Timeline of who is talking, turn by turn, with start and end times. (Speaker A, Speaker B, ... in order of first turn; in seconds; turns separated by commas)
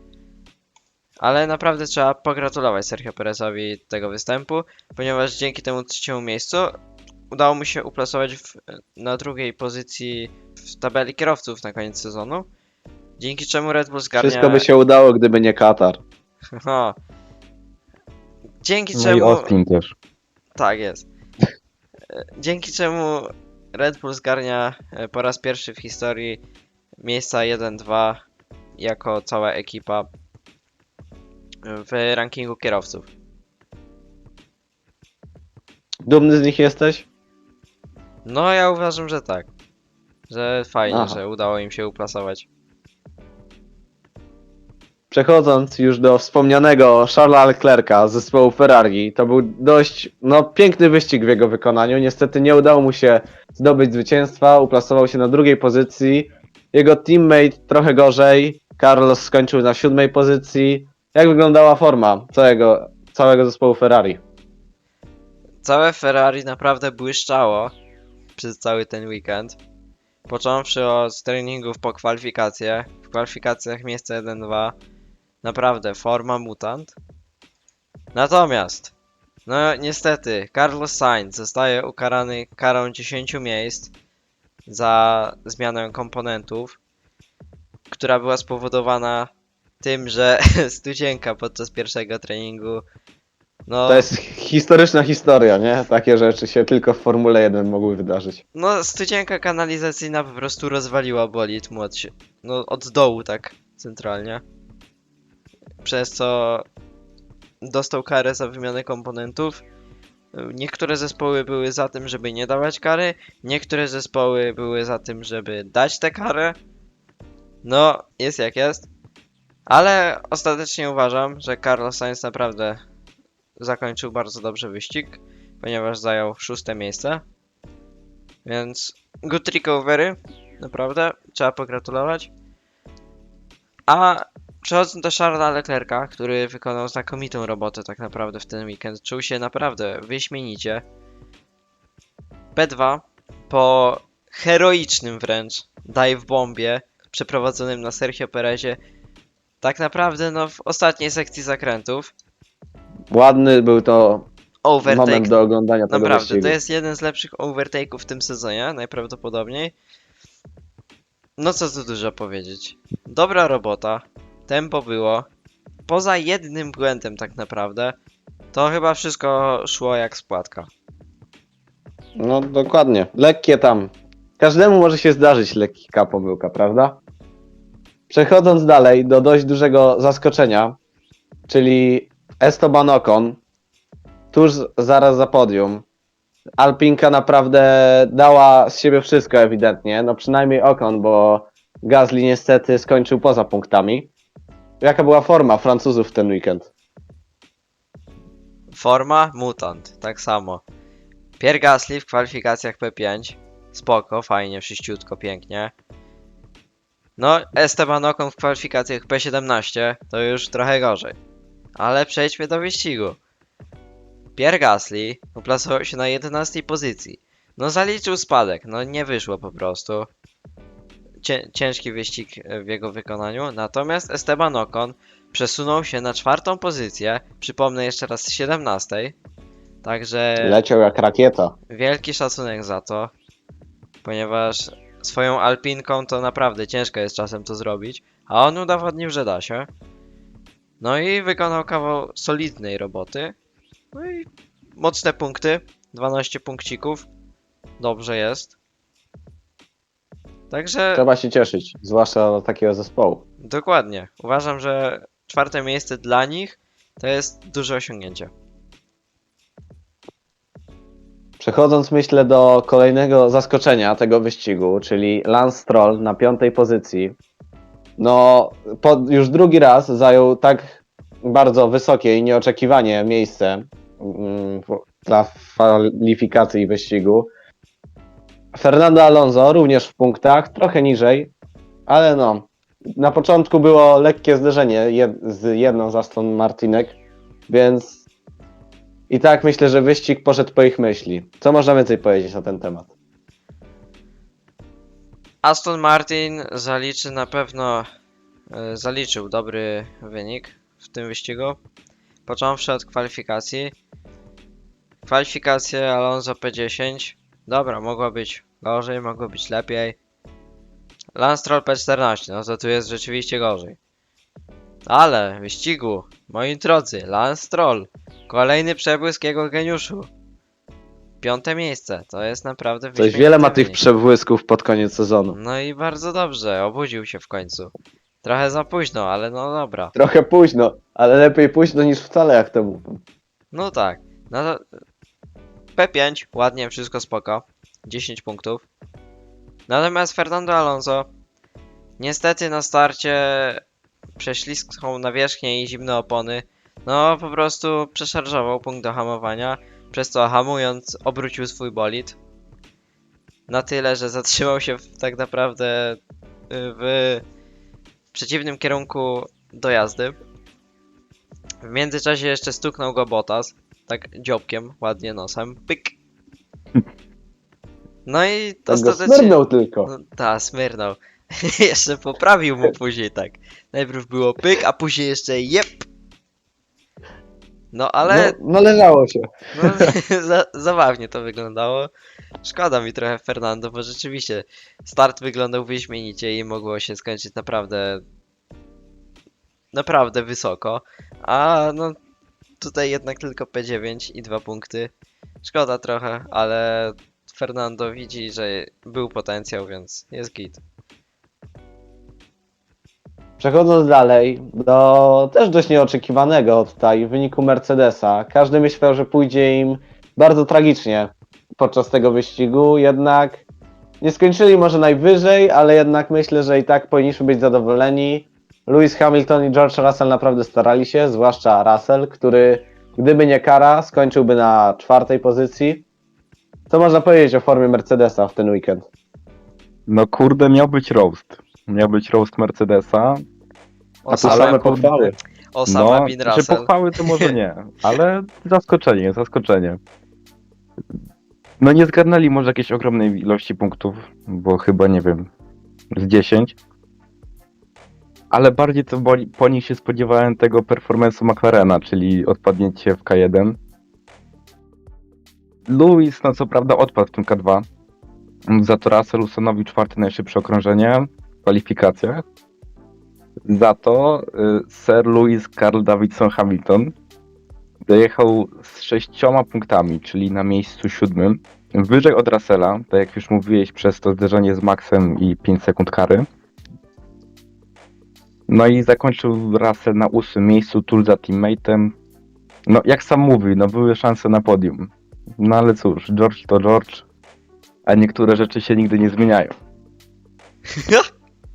Speaker A: 1.2-6.8, Speaker A: 7.3-12.5, Speaker A: 13.2-14.7, Speaker B: 14.2-16.0, Speaker A: 16.5-17.0, Speaker A: 18.6-19.5, Speaker C: 18.9-19.9, Speaker A: 20.6-21.1, Speaker A: 22.1-26.4, Speaker A: 27.0-28.2, Speaker A: 28.8-30.1, Speaker A: 31.6-33.1, Speaker B: 36.1-37.1, Speaker A: 38.2-39.5, Speaker A: 40.3-42.5, Speaker B: 40.9-41.2, Speaker B: 45.1-64.2, Speaker A: 65.6-67.7, Speaker A: 68.4-69.6, Speaker A: 70.3-74.8, Speaker A: 75.4-77.0, Speaker A: 78.1-78.9, Speaker A: 79.5-83.9, Speaker A: 84.7-86.8, Speaker A: 87.9-92.8, Speaker A: 93.7-94.1, Speaker B: 93.9-98.4, Speaker A: 98.5-104.4, Speaker A: 105.8-106.7, Speaker A: 107.6-109.6, Speaker A: 110.3-116.6, Speaker A: 117.6-118.9, Speaker A: 119.7-122.8, Speaker A: 123.6-127.2, Speaker A: 128.4-132.3, Speaker A: 133.9-140.8, Speaker A: 142.6-148.8, Speaker A: 149.6-152.1, Speaker B: 153.1-154.3, Speaker A: 154.7-155.4, Speaker B: 154.8-156.6, Speaker A: 155.9-159.7, Speaker A: 161.4-165.3, Speaker A: 165.9-168.0, Speaker A: 168.5-170.7, Speaker B: 172.2-177.0, Speaker B: 178.1-180.8, Speaker B: 181.5-183.4, Speaker B: 184.3-185.8, Speaker B: 186.6-194.1, Speaker B: 194.8-196.7, Speaker A: 198.7-200.6, Speaker A: 201.4-205.7, Speaker A: 207.2-211.2, Speaker A: 211.8-213.2, Speaker A: 214.4-220.1, Speaker A: 221.2-229.2, Speaker A: 229.8-230.6, Speaker B: 230.4-231.6, Speaker A: 231.7-233.1, Speaker A: 234.0-239.7, Speaker A: 240.8-243.3, Speaker A: 243.9-247.1, Speaker A: 247.8-248.5, Speaker A: 250.5-251.1, Speaker B: 250.9-253.2, Speaker A: 253.4-258.3, Speaker B: 261.4-267.2, Speaker B: 268.0-277.3, Speaker B: 278.5-281.3, Speaker B: 281.9-287.0, Speaker B: 287.5-288.0, Speaker B: 289.1-292.9, Speaker A: 295.4-297.9, Speaker A: 298.5-301.6, Speaker A: 302.3-303.7, Speaker A: 305.1-310.0, Speaker A: 311.1-313.8, Speaker A: 314.9-320.1, Speaker A: 321.2-323.8, Speaker B: 323.0-325.4, Speaker A: 325.3-327.7, Speaker A: 328.2-329.9, Speaker B: 329.9-333.0, Speaker A: 333.5-334.6, Speaker A: 335.8-338.6, Speaker A: 339.7-341.1, Speaker A: 342.0-343.6, Speaker A: 344.2-352.2, Speaker A: 353.5-357.2, Speaker A: 358.1-360.2, Speaker A: 361.6-365.9, Speaker A: 368.1-375.9, Speaker B: 368.7-369.9, Speaker A: 377.7-378.4, Speaker B: 378.0-379.9, Speaker A: 379.6-381.9, Speaker A: 382.4-388.0, Speaker A: 389.7-392.0, Speaker A: 392.6-394.9, Speaker A: 395.4-400.6, Speaker B: 403.4-413.4, Speaker B: 414.0-425.9, Speaker B: 426.7-428.9, Speaker C: 429.9-433.3, Speaker A: 434.1-434.8, Speaker B: 434.1-435.2, Speaker C: 434.1-435.2, Speaker A: 435.6-437.3, Speaker C: 435.7-439.8, Speaker C: 441.6-445.3, Speaker C: 445.9-446.6, Speaker C: 448.3-453.6, Speaker C: 455.7-457.7, Speaker C: 458.5-462.2, Speaker C: 463.5-466.9, Speaker C: 467.9-476.3, Speaker C: 478.5-481.9, Speaker C: 482.7-487.1, Speaker C: 487.9-489.5, Speaker A: 490.7-491.1